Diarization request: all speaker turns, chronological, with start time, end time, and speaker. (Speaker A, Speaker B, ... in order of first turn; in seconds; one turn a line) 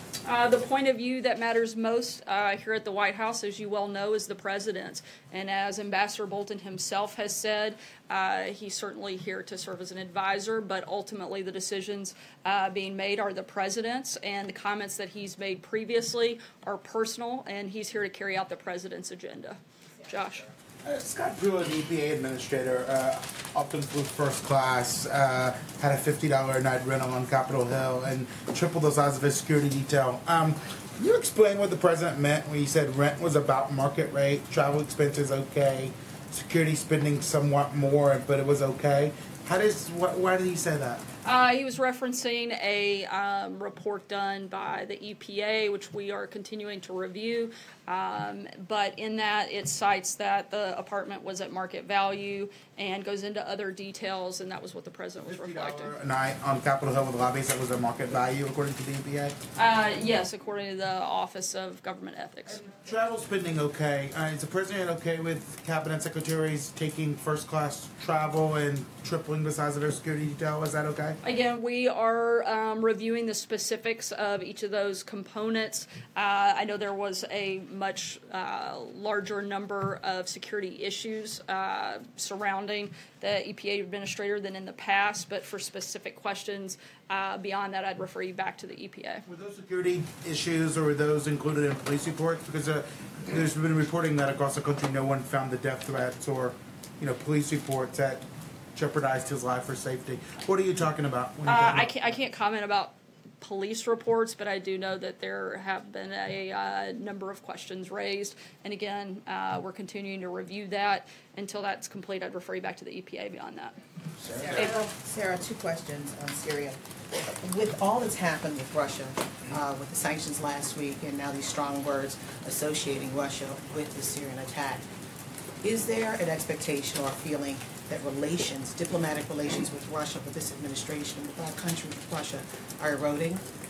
Speaker A: 0.2-20.5
Speaker B: 20.9-41.0
Speaker A: 41.2-55.9
Speaker B: 55.2-59.4
Speaker A: 59.6-62.6
Speaker B: 62.5-71.2
Speaker A: 71.2-89.2
Speaker B: 89.3-101.9
Speaker A: 101.5-113.7
Speaker C: 114.3-124.8
Speaker C: 125.6-133.4